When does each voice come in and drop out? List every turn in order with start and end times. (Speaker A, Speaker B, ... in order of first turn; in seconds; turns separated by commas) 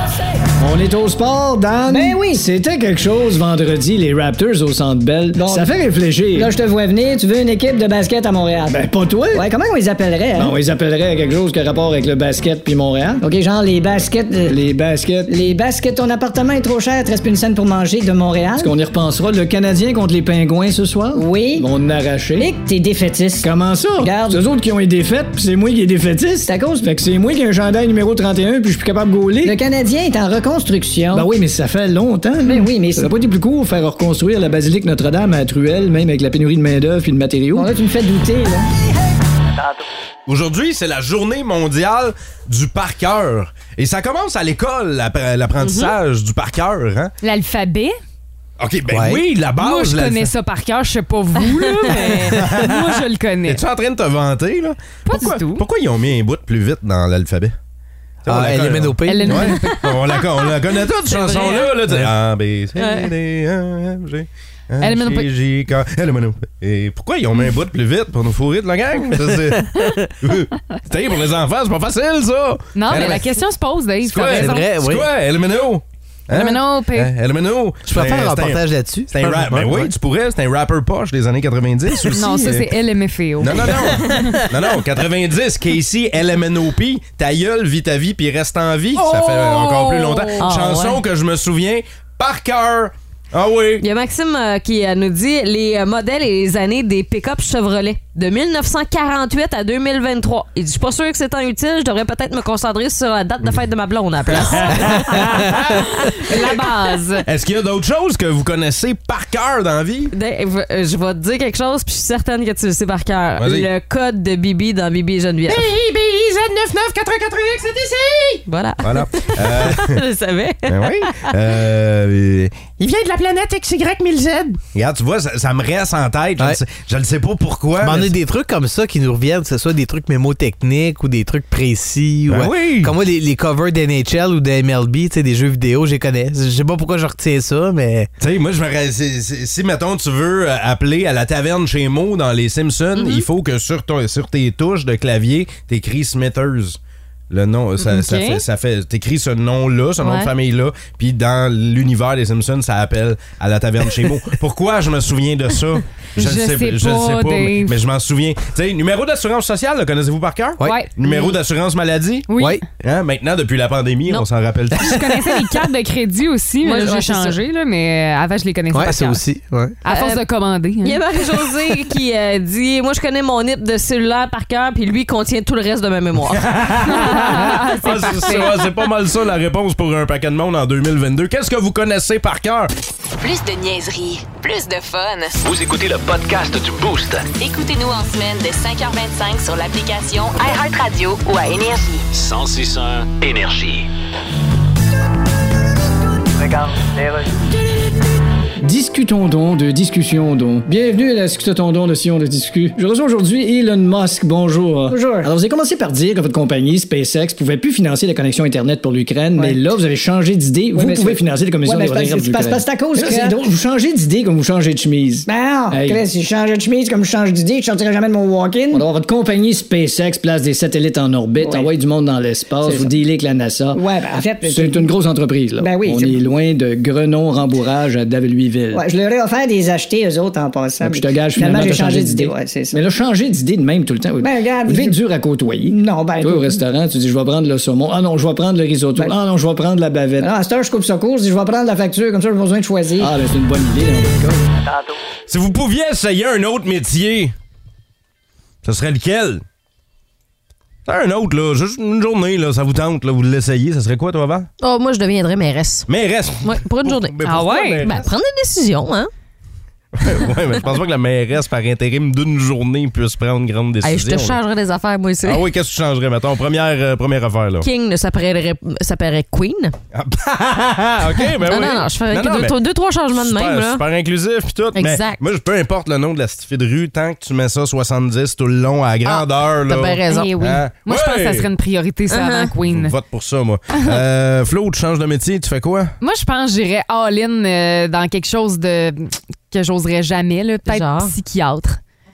Speaker A: 0.6-6.5, Speaker B: 1.9-2.4, Speaker B: 5.4-5.7, Speaker B: 6.3-10.6, Speaker A: 8.7-9.5, Speaker A: 10.4-13.2, Speaker B: 13.2-14.6, Speaker A: 14.5-15.4, Speaker B: 15.3-18.7, Speaker A: 18.6-22.5, Speaker B: 21.1-21.7, Speaker B: 22.4-24.4, Speaker A: 23.4-29.6, Speaker B: 26.5-26.9, Speaker B: 29.4-31.3, Speaker A: 31.1-37.7, Speaker B: 32.4-33.1, Speaker B: 37.5-38.7, Speaker C: 40.3-47.1, Speaker D: 45.6-46.0, Speaker E: 47.2-48.0, Speaker C: 48.6-50.3, Speaker F: 48.9-49.2, Speaker E: 49.6-53.6, Speaker D: 51.8-52.3, Speaker C: 52.0-57.6, Speaker E: 55.0-55.6, Speaker C: 58.2-73.2, Speaker F: 58.3-59.5, Speaker E: 59.1-59.9, Speaker D: 59.3-61.8, Speaker D: 62.8-63.1, Speaker E: 64.8-65.3, Speaker E: 72.8-74.7, Speaker C: 74.0-82.7, Speaker F: 74.2-75.1, Speaker E: 76.3-77.1, Speaker F: 77.8-79.9, Speaker E: 82.1-84.4, Speaker C: 83.4-93.8, Speaker D: 83.8-84.3, Speaker E: 89.1-90.5, Speaker D: 90.4-91.0, Speaker D: 93.8-107.0, Speaker C: 104.3-106.3, Speaker E: 106.1-107.2, Speaker C: 107.2-110.1, Speaker D: 110.1-115.7, Speaker C: 113.4-113.7, Speaker C: 115.5-120.0, Speaker D: 118.5-121.4, Speaker C: 120.7-128.1, Speaker F: 127.8-138.1, Speaker C: 132.3-132.9, Speaker C: 138.2-146.8, Speaker D: 142.9-143.3, Speaker C: 147.3-165.1, Speaker E: 147.8-148.4, Speaker D: 150.0-150.3, Speaker E: 156.2-157.8, Speaker E: 160.6-160.9, Speaker E: 162.3-162.6, Speaker E: 164.8-169.2, Speaker D: 166.6-167.4, Speaker F: 168.7-169.8, Speaker E: 169.8-171.0, Speaker D: 169.8-170.2, Speaker D: 170.8-176.7, Speaker C: 176.3-182.7, Speaker E: 176.8-178.6, Speaker G: 183.2-185.4, Speaker H: 185.4-187.3, Speaker G: 187.3-192.1, Speaker H: 192.1-193.9, Speaker B: 196.4-197.3, Speaker A: 198.6-216.0, Speaker B: 204.9-205.3, Speaker B: 210.7-213.5, Speaker B: 215.3-218.8, Speaker A: 218.7-223.8, Speaker B: 221.4-221.7, Speaker B: 222.6-222.9, Speaker B: 223.7-224.9, Speaker A: 224.4-228.8, Speaker B: 225.6-226.2, Speaker B: 228.7-232.8, Speaker A: 230.8-240.3, Speaker B: 234.2-235.0, Speaker B: 235.7-236.6, Speaker B: 240.2-243.1, Speaker A: 243.0-244.5, Speaker B: 244.7-244.9, Speaker C: 245.3-247.3, Speaker C: 248.6-249.4, Speaker C: 250.9-254.5, Speaker D: 254.6-255.9, Speaker C: 255.9-258.1, Speaker D: 256.4-259.1, Speaker E: 257.2-257.9, Speaker C: 259.9-264.4, Speaker D: 263.8-265.5, Speaker C: 265.2-267.7, Speaker D: 267.6-269.8, Speaker C: 269.9-272.6, Speaker D: 271.3-273.9, Speaker C: 273.1-281.5, Speaker D: 274.8-275.3, Speaker D: 279.1-280.4, Speaker E: 280.1-282.9, Speaker D: 282.1-282.5, Speaker C: 282.7-285.9, Speaker E: 283.7-284.0, Speaker E: 286.0-291.8, Speaker D: 290.6-291.1